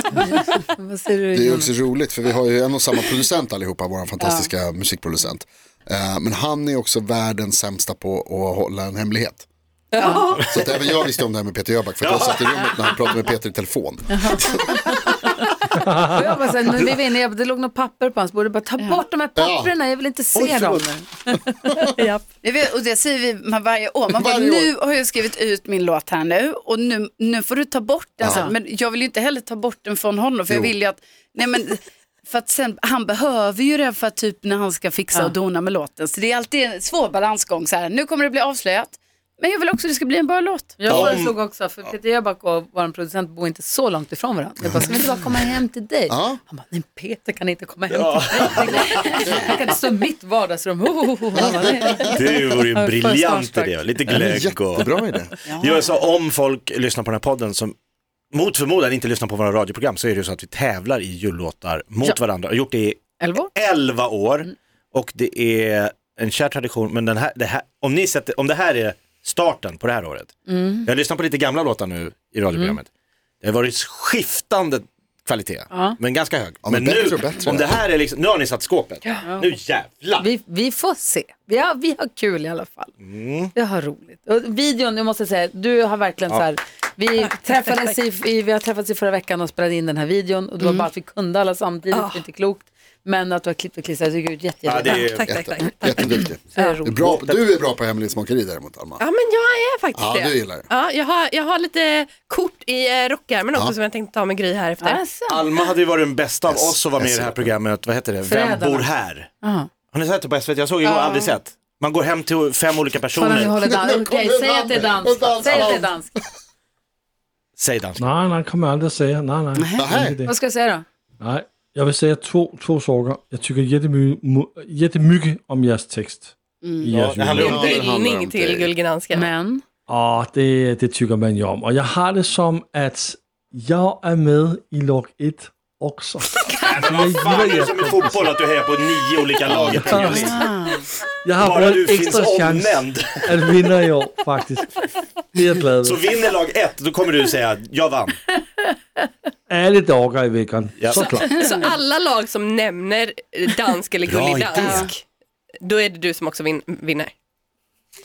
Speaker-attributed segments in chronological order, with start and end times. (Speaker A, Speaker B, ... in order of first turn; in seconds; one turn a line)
Speaker A: 0.1-1.7
Speaker B: 1.3-9.4
Speaker C: 4.2-4.5
Speaker D: 9.9-10.6
Speaker A: 10.0-10.3
Speaker B: 10.5-14.8
Speaker E: 12.0-13.0
Speaker A: 14.1-15.4
Speaker A: 16.0-22.2
Speaker B: 19.4-19.7
Speaker E: 20.3-20.9
Speaker C: 22.4-40.9
Speaker B: 24.1-24.7
Speaker B: 28.2-28.5
Speaker A: 28.3-28.5
Speaker B: 30.5-30.7
Speaker A: 40.8-53.9
Speaker E: 40.9-41.3
Speaker B: 44.6-45.4
Speaker B: 46.1-46.4
Speaker E: 47.9-49.1
Speaker B: 51.4-52.2
Speaker E: 52.1-55.0
Speaker B: 54.1-55.3
Speaker C: 55.5-55.8
Speaker E: 55.6-57.7
Speaker E: 58.3-70.3
Speaker A: 63.2-63.5
Speaker A: 70.5-70.9
Speaker E: 70.8-72.9
Speaker E: 73.4-80.3
Speaker A: 75.7-76.0
Speaker B: 76.6-77.7
Speaker A: 80.2-82.9
Speaker E: 83.0-83.5
Speaker A: 83.5-95.1
Speaker C: 90.6-90.9
Speaker D: 91.9-92.2
Speaker E: 94.7-95.4
Speaker D: 95.0-96.9
Speaker B: 95.3-99.0
Speaker A: 95.9-96.9
Speaker E: 96.9-97.5
Speaker D: 99.0-105.0
Speaker B: 99.9-100.6
Speaker A: 104.8-105.5
Speaker E: 105.3-109.3
Speaker B: 106.5-107.5
Speaker A: 108.2-108.9
Speaker E: 109.9-113.5
Speaker C: 110.8-111.3
Speaker A: 113.1-116.1
Speaker B: 113.4-116.0
Speaker E: 115.4-115.7
Speaker E: 117.5-118.1
Speaker F: 118.0-120.3
Speaker C: 119.5-119.8
Speaker B: 119.8-120.2
Speaker A: 120.2-120.8
Speaker F: 121.2-127.9
Speaker C: 126.6-126.9
Speaker E: 126.9-127.5
Speaker B: 127.3-128.7
Speaker D: 127.4-129.3
Speaker A: 129.1-129.6
Speaker F: 129.9-138.3
Speaker E: 136.6-140.4
Speaker F: 139.4-140.5
Speaker C: 140.1-140.8
Speaker F: 141.2-146.1
Speaker E: 141.4-143.4
Speaker E: 145.8-148.2
Speaker F: 149.5-151.5
Speaker E: 150.8-151.1
Speaker D: 150.9-155.0
Speaker E: 154.0-154.9
Speaker C: 154.6-154.9
Speaker D: 155.6-157.1